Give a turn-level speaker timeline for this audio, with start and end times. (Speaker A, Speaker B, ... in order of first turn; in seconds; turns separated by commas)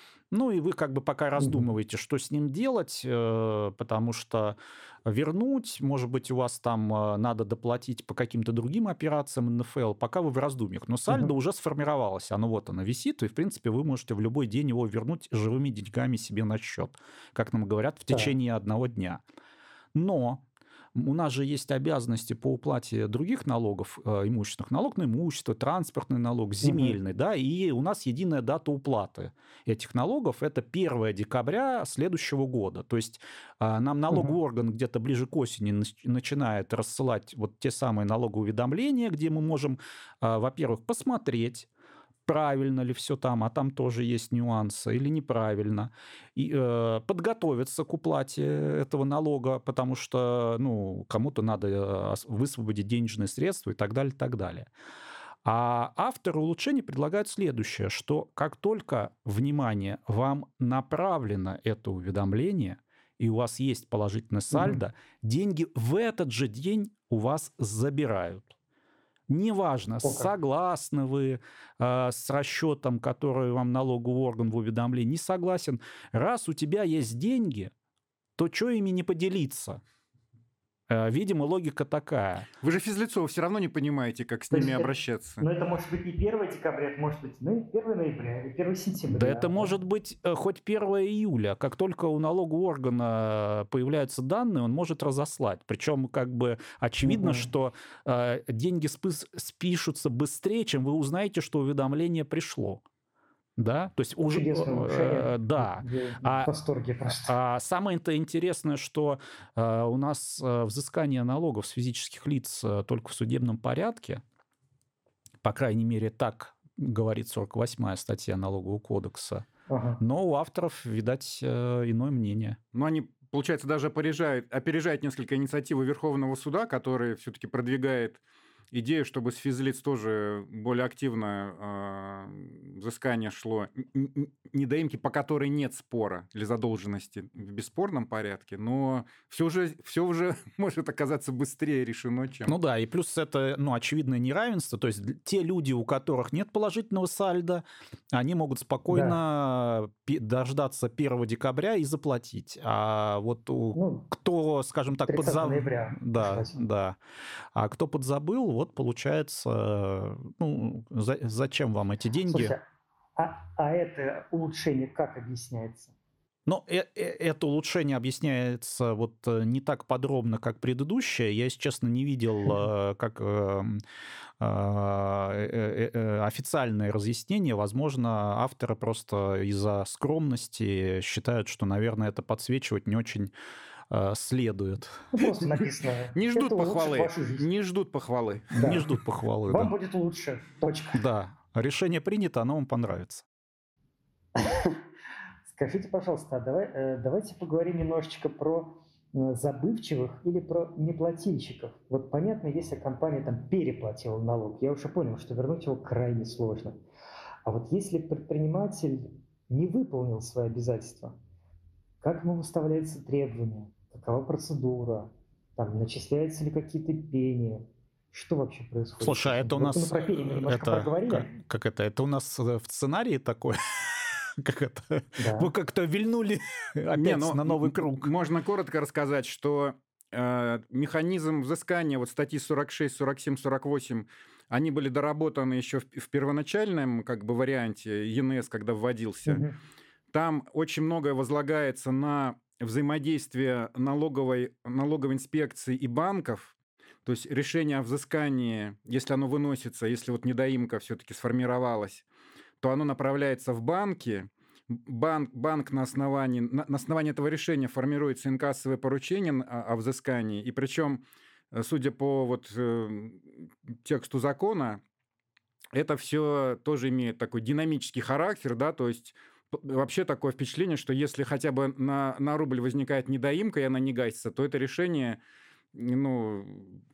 Speaker A: 0.3-19.2, Speaker B: 1.4-1.6, Speaker A: 19.9-41.7, Speaker B: 26.6-27.0, Speaker B: 34.1-34.3, Speaker A: 42.2-54.7, Speaker A: 55.4-68.5, Speaker B: 64.5-64.8, Speaker A: 69.3-77.7, Speaker B: 70.0-70.3, Speaker A: 78.4-79.8, Speaker A: 80.9-82.5, Speaker C: 82.6-85.4, Speaker B: 84.5-89.7, Speaker A: 89.1-102.8, Speaker B: 97.0-97.5, Speaker A: 103.6-106.5, Speaker B: 104.3-107.3, Speaker A: 107.1-114.2, Speaker A: 115.4-119.5, Speaker B: 119.7-120.0, Speaker A: 120.0-122.6, Speaker C: 122.7-128.2, Speaker C: 128.7-142.5, Speaker A: 142.4-157.0, Speaker B: 148.9-149.2, Speaker B: 153.7-154.1, Speaker B: 155.1-156.7, Speaker A: 157.5-162.6, Speaker B: 162.3-162.6, Speaker B: 163.2-165.9, Speaker A: 166.4-173.8, Speaker A: 174.4-183.3, Speaker A: 183.9-185.1, Speaker B: 185.1-187.4, Speaker C: 186.1-188.7, Speaker B: 188.5-188.9, Speaker A: 188.5-189.7, Speaker B: 189.5-191.0, Speaker A: 190.9-193.2, Speaker B: 194.4-194.8, Speaker B: 195.5-206.8, Speaker B: 207.4-211.2, Speaker B: 212.0-221.3, Speaker A: 219.0-228.1, Speaker B: 225.2-225.5, Speaker C: 226.9-239.4, Speaker B: 239.2-239.5, Speaker C: 240.1-246.5, Speaker C: 247.0-252.0, Speaker C: 252.6-264.8, Speaker C: 265.7-275.2, Speaker C: 275.7-276.8